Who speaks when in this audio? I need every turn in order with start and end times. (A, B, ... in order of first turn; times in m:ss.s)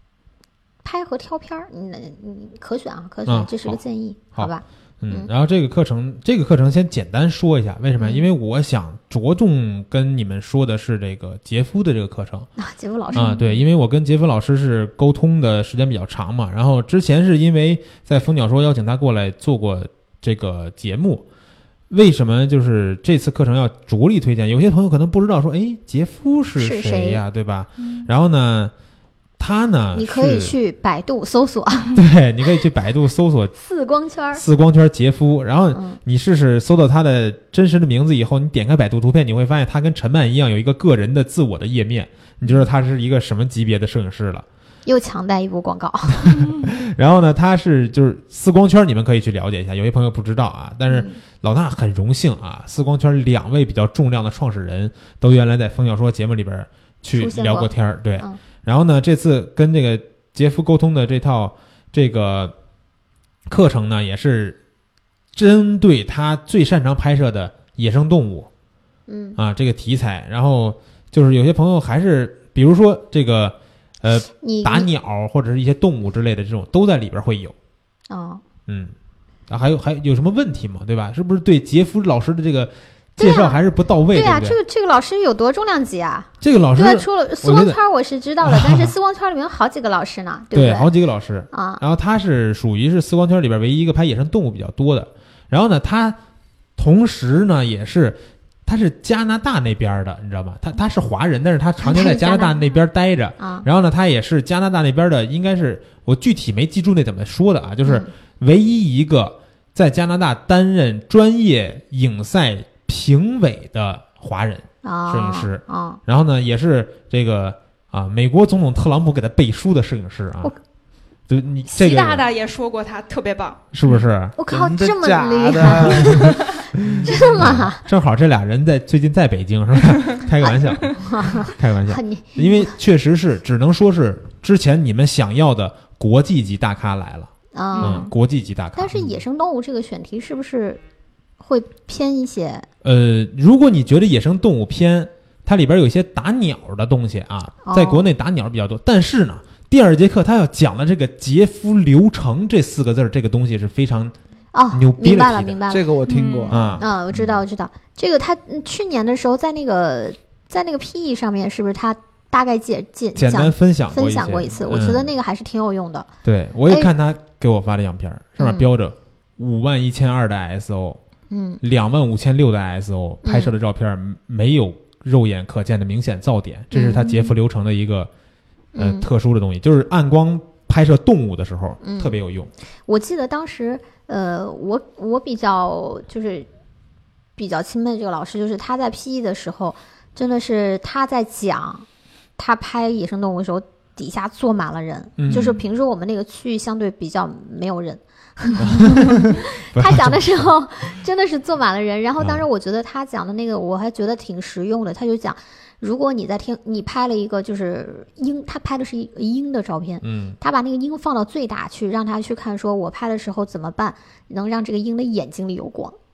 0:00.8-0:05.3 A
0:03.3-0:03.8 B
0:04.3-0:12.5 B
0:08.0-0:08.3 A
0:12.6-0:13.4 A
0:13.1-0:13.6 C
0:13.1-0:21.2 B
0:21.9-0:28.7 B
0:26.6-0:27.2 A
0:27.8-0:28.1 C
0:29.4-0:30.6 B
0:29.9-0:32.0 A
0:32.0-0:33.6 B
0:33.6-0:34.4 A
0:34.3-0:44.4 B
0:35.7-0:36.0 A
0:44.9-0:46.5 A
0:46.3-1:02.5 B
0:50.9-0:51.2 A
0:57.2-0:58.4 A
1:03.5-1:04.6 B
1:05.4-1:08.5 B
1:09.1-1:09.4 A
1:09.4-1:17.5 B
1:14.4-1:14.9 A
1:18.1-1:18.4 A
1:18.7-1:18.9 B
1:19.5-1:24.6 B
1:23.2-1:23.6 A
1:24.1-1:30.9 A
1:26.4-1:27.8 B
1:28.4-1:28.9 B
1:30.5-1:36.2 B
1:31.5-1:31.8 A
1:36.8-2:00.5 B
1:41.8-1:42.6 A
1:43.4-1:43.7 A
1:47.8-1:48.1 A
1:54.8-1:56.0 A
2:01.3-2:02.3 B
2:01.7-2:04.1 C
2:03.7-2:04.4 B
2:04.4-2:06.5 A
2:04.5-2:07.5 D
2:06.0-2:06.3 C
2:06.8-2:19.2 B
2:07.1-2:07.8 A
2:10.4-2:12.7 A
2:17.5-2:18.1 A
2:17.7-2:18.1 C
2:18.8-2:20.8 A
2:21.4-2:22.7 A
2:22.8-2:34.2 B
2:27.6-2:28.1 A
2:34.5-2:35.9 A
2:34.7-2:35.6 B
2:35.7-2:36.9 D
2:36.1-2:36.5 C
2:36.5-2:36.9 B
2:36.8-2:46.1 A
2:43.2-2:45.1 B
2:46.2-2:51.0 B
2:48.4-2:48.7 A
2:51.3-2:51.6 A
2:51.6-2:58.1 B
2:53.2-2:53.5 A
2:56.7-2:57.3 A
2:58.8-2:59.1 A
2:58.8-3:02.5 B
3:01.8-3:02.2 A
3:02.9-3:06.5 A
3:07.4-3:11.9 A
3:12.4-3:36.0 A
3:15.2-3:15.6 B
3:18.6-3:20.5 B
3:22.2-3:22.4 B
3:30.0-3:30.4 B